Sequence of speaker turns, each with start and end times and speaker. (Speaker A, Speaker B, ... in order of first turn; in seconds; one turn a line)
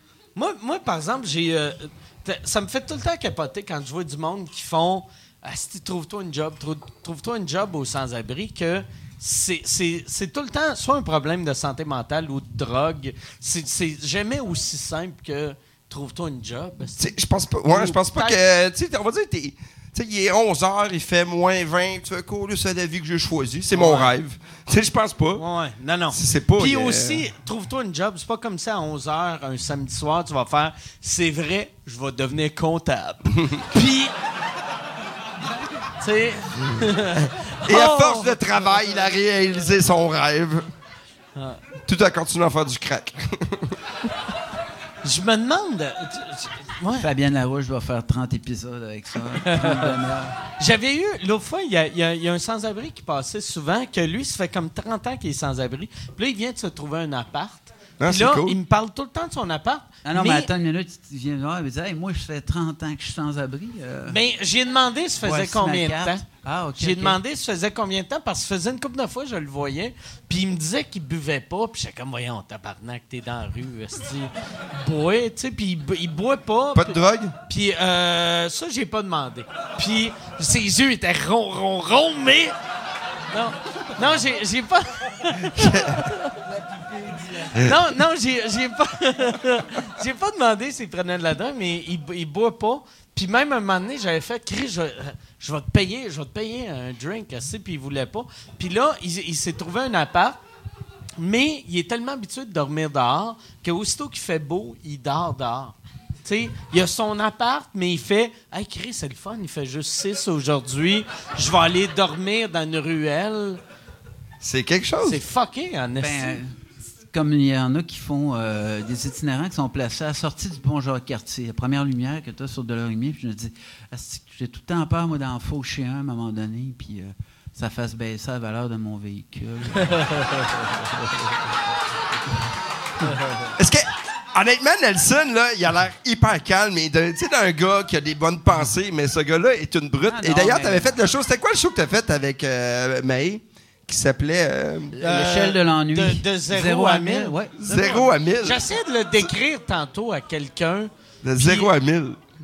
Speaker A: 0.4-17.1
Speaker B: 17.0-25.4
Speaker A: 17.7-18.4
Speaker A: 23.7-24.1
Speaker A: 25.4-34.1
Speaker B: 26.1-27.2
Speaker A: 36.0-39.1
Speaker B: 37.6-40.7
Speaker A: 41.4-41.6
Speaker B: 41.9-43.8
Speaker A: 45.0-47.1
Speaker C: 47.0-50.4
Speaker A: 49.5-49.9
Speaker A: 50.6-60.5
Speaker B: 58.0-58.6
Speaker C: 60.0-64.2
Speaker A: 64.1-66.2
Speaker C: 65.2-67.2
Speaker A: 66.8-82.5
Speaker B: 76.8-77.3
Speaker A: 83.3-86.3
Speaker B: 85.5-86.1
Speaker A: 87.0-100.4
Speaker A: 101.2-113.6
Speaker B: 114.4-115.2
Speaker A: 115.0-116.4
Speaker C: 116.0-116.6
Speaker C: 117.1-130.2
Speaker B: 133.6-145.0
Speaker C: 140.1-141.0
Speaker C: 144.9-148.1
Speaker A: 145.0-151.7
Speaker B: 147.6-148.7
Speaker B: 151.2-152.2